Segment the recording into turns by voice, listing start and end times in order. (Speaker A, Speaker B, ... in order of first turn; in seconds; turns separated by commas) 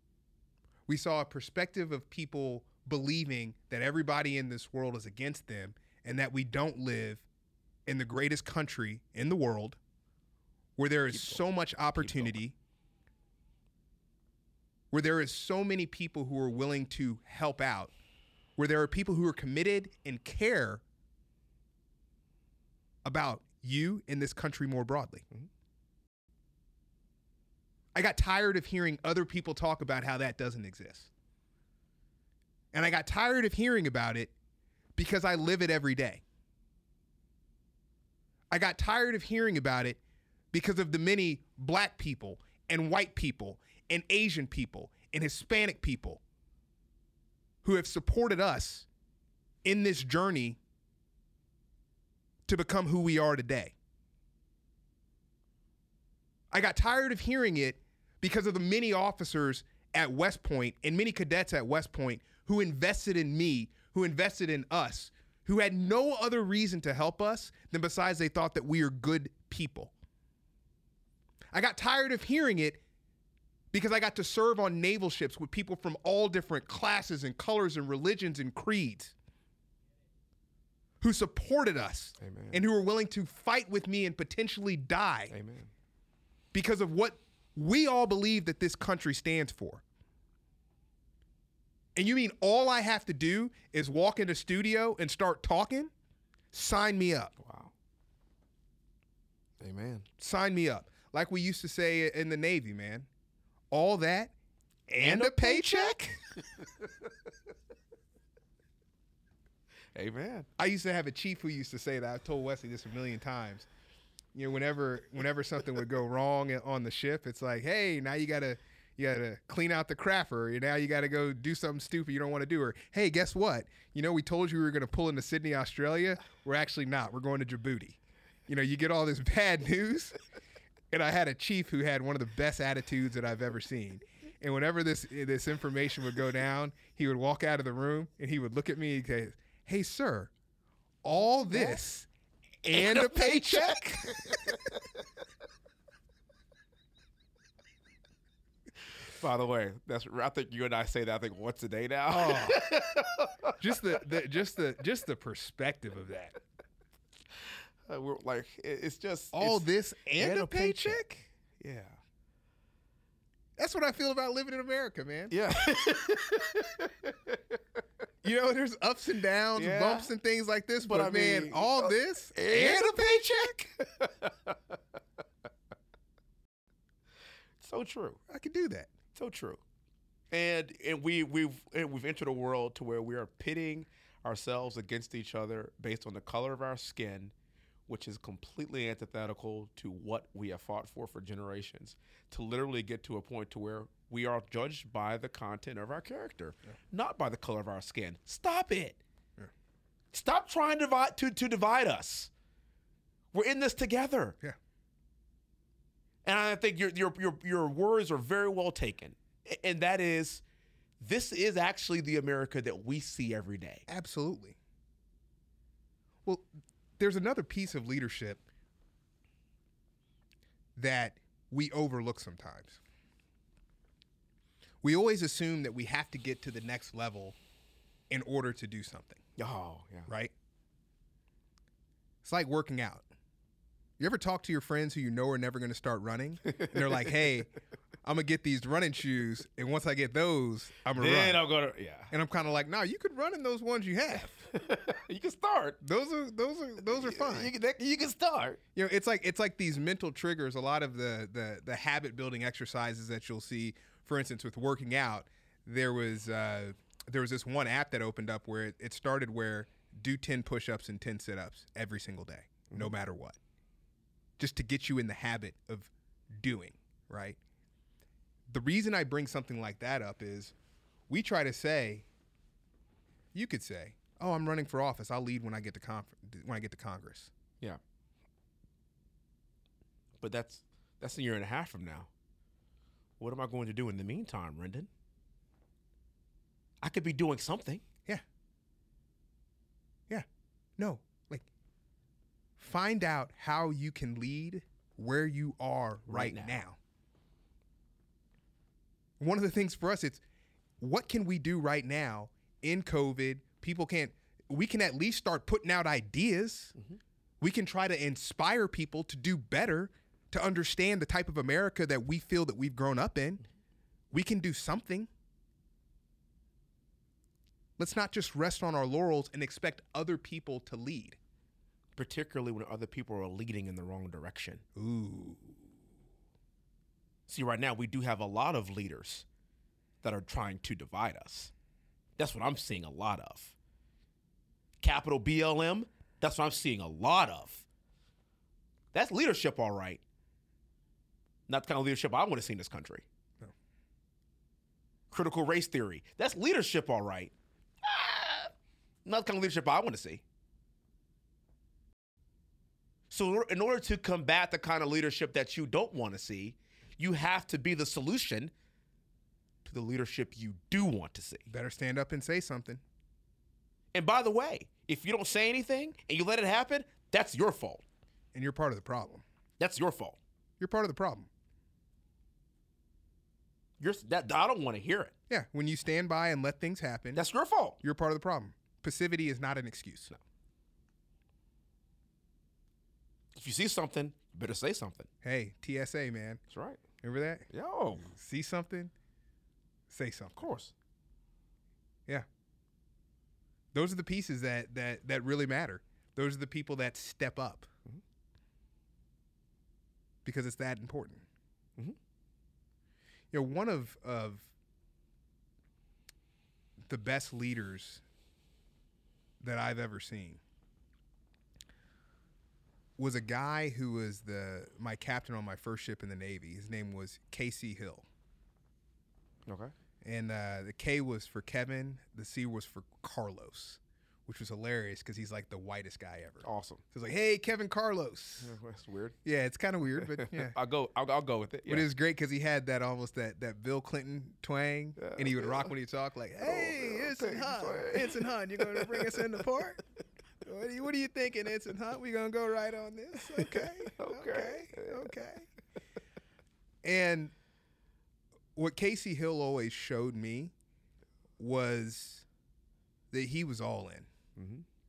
Speaker A: 0.9-7.2, Speaker A: 7.8-9.8, Speaker A: 10.8-12.5, Speaker B: 11.1-11.4, Speaker B: 11.9-12.4, Speaker A: 14.9-17.9, Speaker A: 18.6-20.8, Speaker A: 23.0-25.2, Speaker A: 27.9-31.1, Speaker A: 32.7-34.3, Speaker A: 35.0-36.2, Speaker A: 38.5-40.0, Speaker A: 40.5-46.2, Speaker A: 47.6-48.9, Speaker A: 49.6-50.6, Speaker A: 52.5-53.7, Speaker A: 56.5-69.9, Speaker A: 71.5-72.8, Speaker A: 73.7-79.1, Speaker A: 81.0-85.3, Speaker B: 82.2-82.6, Speaker B: 85.3-85.7, Speaker A: 86.5-89.8, Speaker A: 91.9-95.9, Speaker A: 96.5-97.3, Speaker B: 97.4-97.7, Speaker B: 99.6-100.1, Speaker A: 100.2-103.1, Speaker A: 103.7-104.3, Speaker A: 104.9-106.2, Speaker B: 105.0-107.1, Speaker B: 109.9-110.5, Speaker A: 110.6-113.7, Speaker A: 114.3-130.1, Speaker A: 130.9-140.3, Speaker A: 141.0-142.1, Speaker B: 141.5-141.8, Speaker A: 142.6-144.6, Speaker B: 142.7-144.8, Speaker B: 149.0-153.6, Speaker A: 152.1-152.7, Speaker A: 153.6-156.4, Speaker B: 157.9-161.0, Speaker A: 159.3-161.3, Speaker B: 161.6-162.0, Speaker A: 163.6-165.3, Speaker B: 165.3-167.6, Speaker A: 168.2-173.6, Speaker B: 169.6-170.1, Speaker B: 170.8-174.8, Speaker B: 177.6-178.2, Speaker A: 178.3-178.9, Speaker B: 179.1-179.6, Speaker B: 180.3-187.3, Speaker B: 187.9-199.0, Speaker B: 200.1-202.3, Speaker B: 203.3-204.4, Speaker B: 206.2-210.4, Speaker B: 211.0-213.8, Speaker A: 213.9-214.6, Speaker A: 217.0-218.4, Speaker A: 220.8-222.8, Speaker A: 224.8-227.3, Speaker A: 228.1-229.2, Speaker B: 229.4-230.1, Speaker A: 230.1-230.3, Speaker A: 232.2-233.1, Speaker A: 234.0-237.5, Speaker B: 236.5-237.1, Speaker A: 238.0-241.4, Speaker B: 240.9-242.1, Speaker A: 242.1-244.5, Speaker B: 244.4-245.8, Speaker A: 245.8-247.5, Speaker B: 246.9-248.6, Speaker A: 248.7-263.4, Speaker A: 264.4-267.4, Speaker A: 268.5-270.5, Speaker A: 271.1-272.1, Speaker A: 273.3-277.3, Speaker B: 280.2-282.1, Speaker B: 283.2-284.9, Speaker B: 286.8-287.8, Speaker A: 290.8-291.5, Speaker A: 292.6-296.8, Speaker B: 296.1-296.6, Speaker A: 299.2-300.2, Speaker A: 300.8-306.7, Speaker A: 307.4-313.4, Speaker A: 314.1-315.1, Speaker A: 317.8-321.2, Speaker B: 321.9-324.6, Speaker A: 324.8-325.6, Speaker B: 327.3-329.2, Speaker B: 330.0-331.5, Speaker B: 332.2-333.5, Speaker B: 334.8-337.6, Speaker B: 338.9-340.0, Speaker B: 341.5-343.1, Speaker B: 345.1-347.3, Speaker B: 347.8-348.5, Speaker B: 349.0-350.2, Speaker B: 353.1-358.5, Speaker B: 359.6-361.5, Speaker A: 361.5-362.8, Speaker B: 363.9-367.8, Speaker A: 368.3-369.2, Speaker B: 369.6-370.2, Speaker A: 370.6-371.3, Speaker B: 373.8-375.1, Speaker A: 375.3-377.2, Speaker B: 377.1-377.8, Speaker A: 377.8-380.1, Speaker B: 383.3-385.1, Speaker A: 385.2-386.4, Speaker B: 386.5-386.8, Speaker A: 387.0-387.5, Speaker B: 387.5-388.1, Speaker A: 388.0-388.9, Speaker A: 389.9-390.4, Speaker B: 390.4-390.7, Speaker A: 393.7-397.7, Speaker A: 400.2-401.2, Speaker A: 403.3-404.5, Speaker A: 406.8-408.0, Speaker A: 409.4-410.4, Speaker A: 413.0-418.1, Speaker B: 419.4-419.7, Speaker A: 420.0-428.5, Speaker B: 426.4-426.8, Speaker B: 428.4-429.1, Speaker A: 429.2-430.6, Speaker B: 430.1-431.9, Speaker A: 431.7-439.8, Speaker B: 435.0-435.7, Speaker B: 436.4-439.2, Speaker A: 440.4-445.5, Speaker B: 443.3-445.1, Speaker A: 446.8-447.3, Speaker A: 448.5-450.5, Speaker A: 451.4-452.2, Speaker A: 453.1-454.1, Speaker B: 454.4-454.6